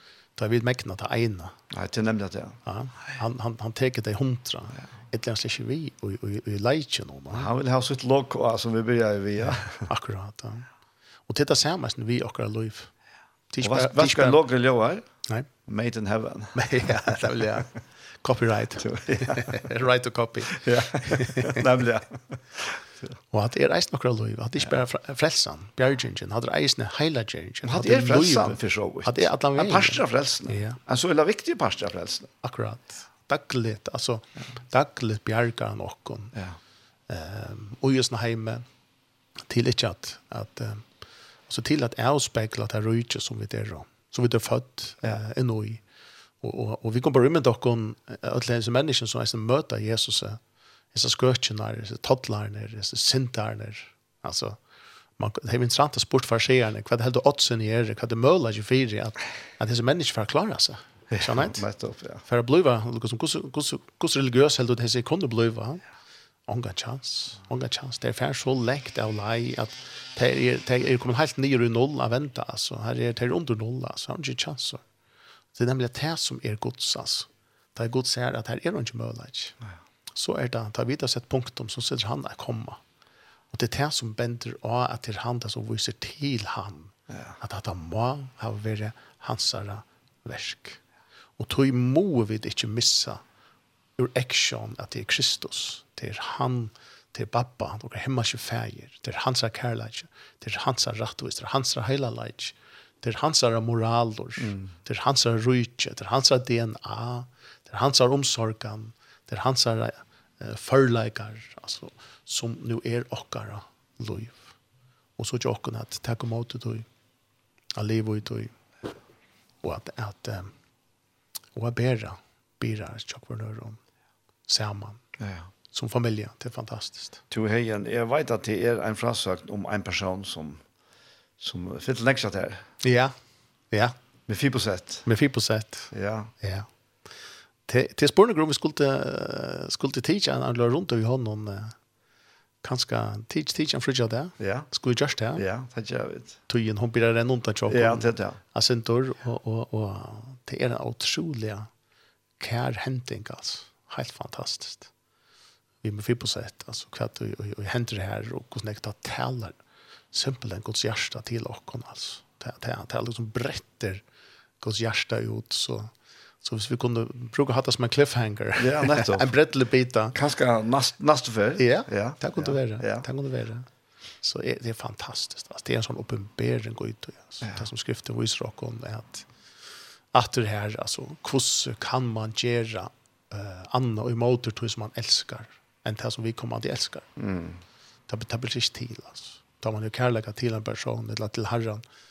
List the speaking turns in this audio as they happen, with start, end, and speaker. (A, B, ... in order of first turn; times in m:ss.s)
0:00.4-0:01.6 A
0:01.7-0:02.6 B
0:02.6-0:07.5 A
0:07.3-0:09.9 B
0:09.8-0:10.7 A
0:11.3-0:12.9 A
0:13.5-0:14.4 A
0:13.6-0:15.0 B
0:15.6-0:17.2 B
0:16.5-0:21.6 A
0:18.8-0:19.6 B
0:20.5-0:23.1 B
0:23.3-0:30.8 A
0:27.6-0:32.3 B
0:32.4-0:36.3 A
0:37.1-0:38.6 A
0:39.5-0:40.8 A
0:41.5-0:45.8 A
0:46.4-0:50.4 A
0:50.9-0:54.6 A
0:55.2-1:01.6 A
1:01.1-1:02.2 B
1:02.2-1:05.8 A
1:06.5-1:14.8 A
1:15.6-1:19.6 A
1:20.1-1:22.8 A
1:23.5-1:30.8 A
1:27.1-1:27.4 B
1:31.4-1:33.2 A
1:34.0-1:54.5 A
1:44.4-1:44.7 B
1:55.2-1:56.9 A
1:57.7-1:58.5 A
1:59.6-2:00.5 A
2:01.5-2:03.8 A
2:04.5-2:05.0 A
2:05.2-2:05.5 B
2:05.7-2:07.2 A
2:07.3-2:10.6 B
2:11.4-2:12.6 B
2:12.8-2:13.1 A
2:14.3-2:15.0 B
2:15.0-2:16.7 A
2:15.9-2:16.3 B
2:17.6-2:21.8 A
2:22.6-2:25.4 A
2:24.4-2:24.7 B
2:25.4-2:26.4 B
2:26.5-2:31.7 A
2:27.7-2:28.4 B
2:32.4-2:34.9 A
2:35.8-2:39.6 A
2:40.1-2:44.0 A
2:44.6-2:50.2 A
2:48.6-2:49.3 B
2:50.1-2:53.0 B
2:51.6-2:53.7 A
2:54.2-2:59.2 A
3:00.1-3:07.1 A
3:07.2-3:07.6 B
3:08.1-3:11.8 A